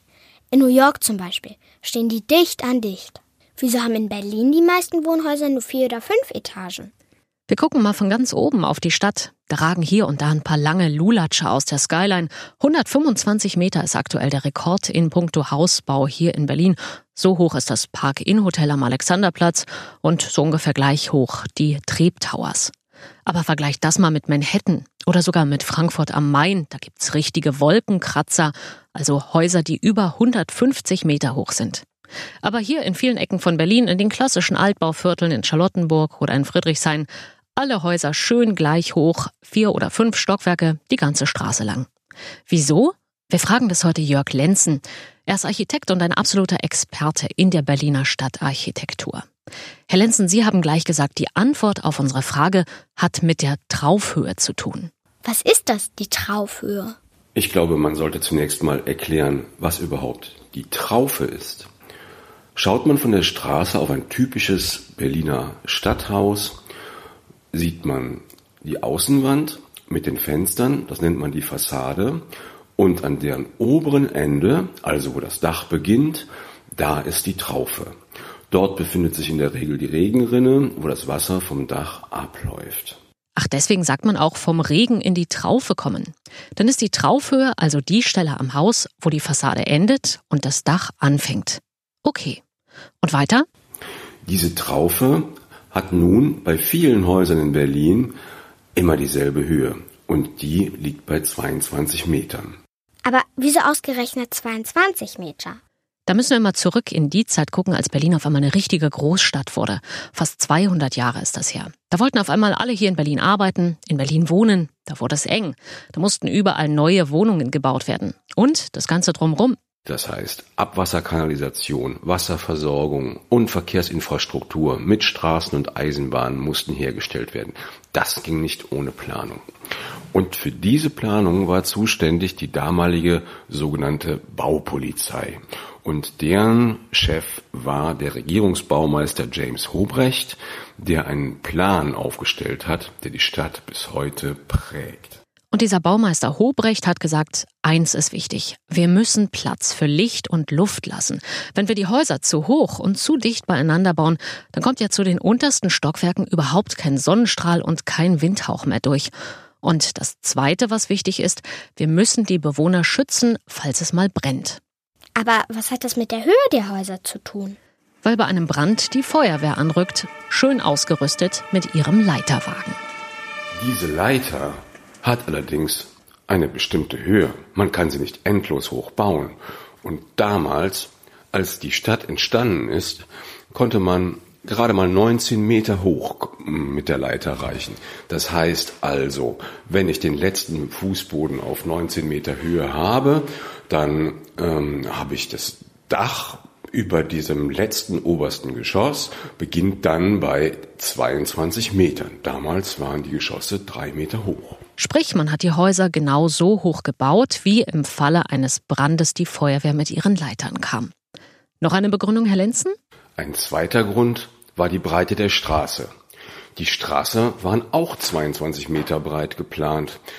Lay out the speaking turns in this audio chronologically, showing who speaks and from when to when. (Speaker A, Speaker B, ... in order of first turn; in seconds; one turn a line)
Speaker A: 0.5-6.9
Speaker B: 7.5-22.7
Speaker B: 23.2-31.8
Speaker B: 32.4-41.9
Speaker B: 42.5-49.2
Speaker B: 49.9-54.9
Speaker A: 55.2-57.0
Speaker C: 57.3-61.7
Speaker C: 62.5-66.5
Speaker C: 67.5-72.2
Speaker C: 72.8-77.9
Speaker C: 78.5-83.0
Speaker B: 83.3-92.4
Speaker B: 93.0-93.5
Speaker C: 94.2-98.2
Speaker C: 98.7-102.6
Speaker A: 103.0-105.6
Speaker B: 106.1-119.6
Speaker C: 119.8-129.4
Speaker C: 130.1-145.2
Speaker B: 145.5-159.1
Speaker B: 159.6-164.6
Speaker A: 165.2-167.6
Speaker B: 168.0-172.8
Speaker C: 173.5-204.6
Speaker B: 204.8-210.9
Speaker B: 211.6-212.8
Speaker C: 213.2-215.9
Speaker C: 216.6-220.0